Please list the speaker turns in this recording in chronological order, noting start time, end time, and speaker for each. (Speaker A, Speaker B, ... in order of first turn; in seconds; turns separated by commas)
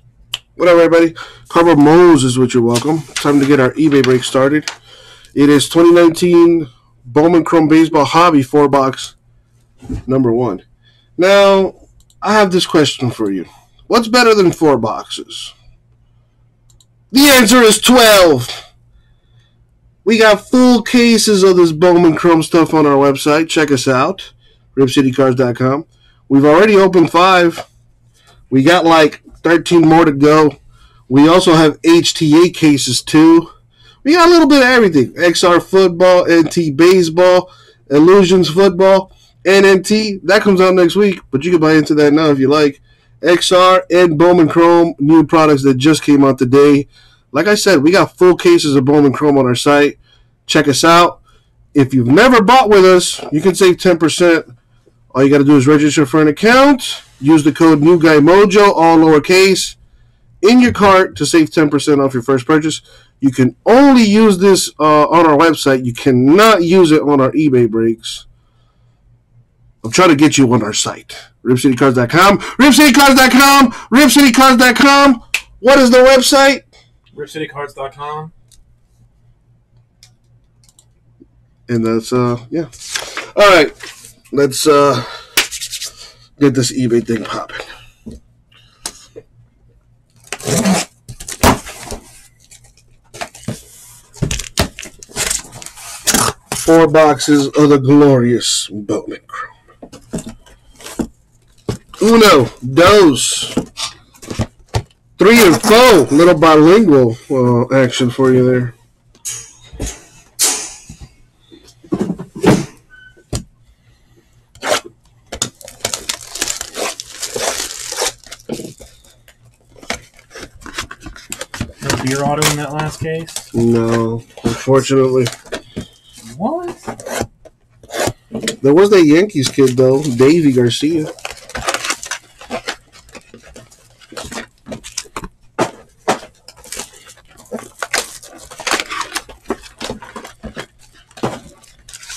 Speaker A: 0.6-4.7, Speaker A: 5.3-9.1, Speaker A: 10.1-10.6, Speaker A: 11.2-15.5, Speaker A: 17.1-18.6, Speaker A: 20.0-27.7, Speaker A: 28.5-30.6, Speaker A: 31.1-33.5, Speaker A: 34.0-51.2, Speaker A: 51.8-54.5, Speaker A: 55.1-59.8, Speaker A: 60.4-68.3, Speaker A: 69.8-76.7, Speaker B: 77.1-78.3, Speaker A: 81.7-83.8, Speaker A: 84.3-85.2, Speaker A: 86.4-87.7, Speaker A: 96.5-99.5, Speaker A: 102.0-103.6, Speaker A: 105.2-108.7, Speaker B: 121.8-123.5, Speaker A: 123.5-125.3, Speaker B: 126.2-126.9, Speaker A: 128.6-131.1